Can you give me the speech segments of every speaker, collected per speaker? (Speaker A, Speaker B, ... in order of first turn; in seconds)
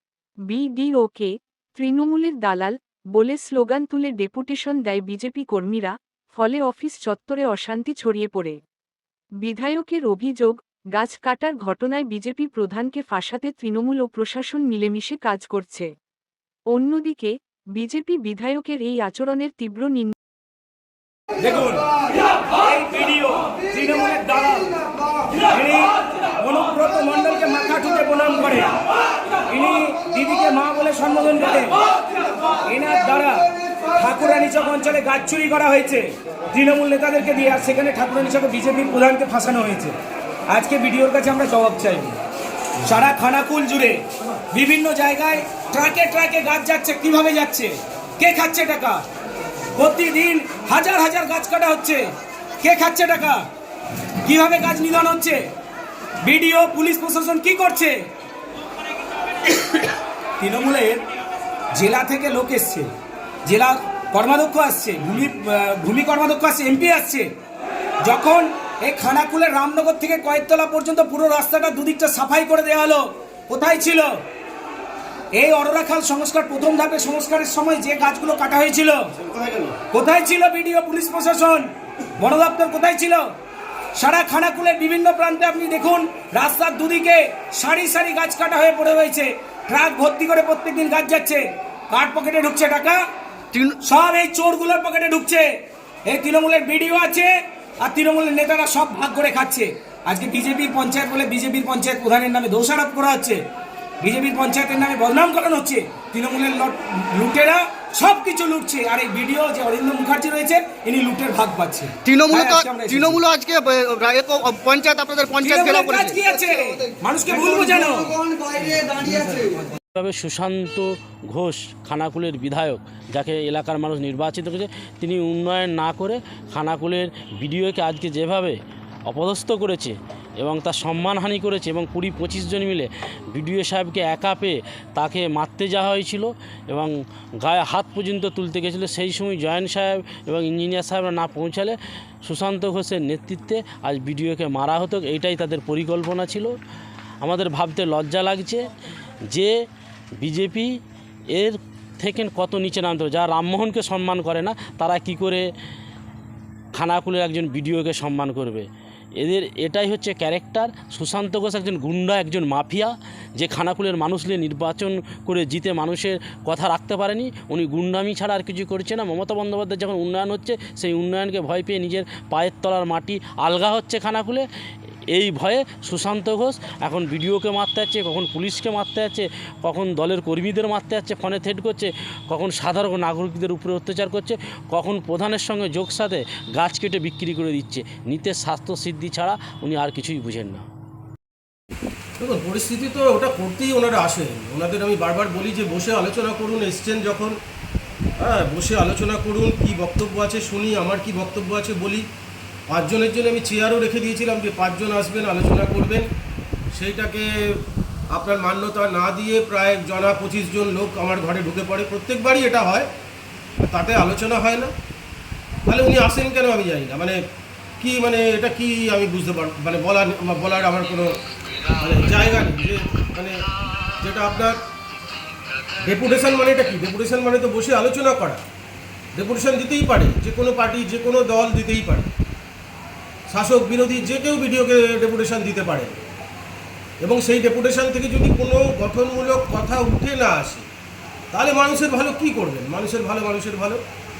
Speaker A: 0.5-8.6, 9.4-15.9, 16.7-20.1
Speaker B: 21.4-21.9, 22.6-24.8, 25.3-28.8, 29.5-31.8, 32.6-40.0, 40.5-42.2, 42.8-49.0, 49.8-52.0, 52.6-53.4, 54.2-55.4, 56.2-58.0, 60.4-61.0, 61.7-62.9, 63.5-67.3, 68.0-74.2, 75.3-79.1, 79.9-81.7, 82.2-83.2, 84.0-93.0, 93.8-95.5, 96.0-103.4, 104.0-113.2, 115.4-118.2
Speaker C: 79.2-79.6, 192.2-197.3, 198.2-202.1, 202.7-206.1, 206.7-212.9, 213.6-214.7, 215.7-217.2, 217.8-221.1, 221.8-223.3, 224.0-224.6, 225.8-228.4, 229.1-232.1, 233.3-236.0, 237.0-240.6, 241.3-243.8
Speaker D: 93.5-93.8, 112.0-119.2
Speaker E: 119.9-146.5, 147.2-148.7, 150.2-150.8, 151.3-155.5, 156.7-158.7, 159.2-174.4, 175.1-190.7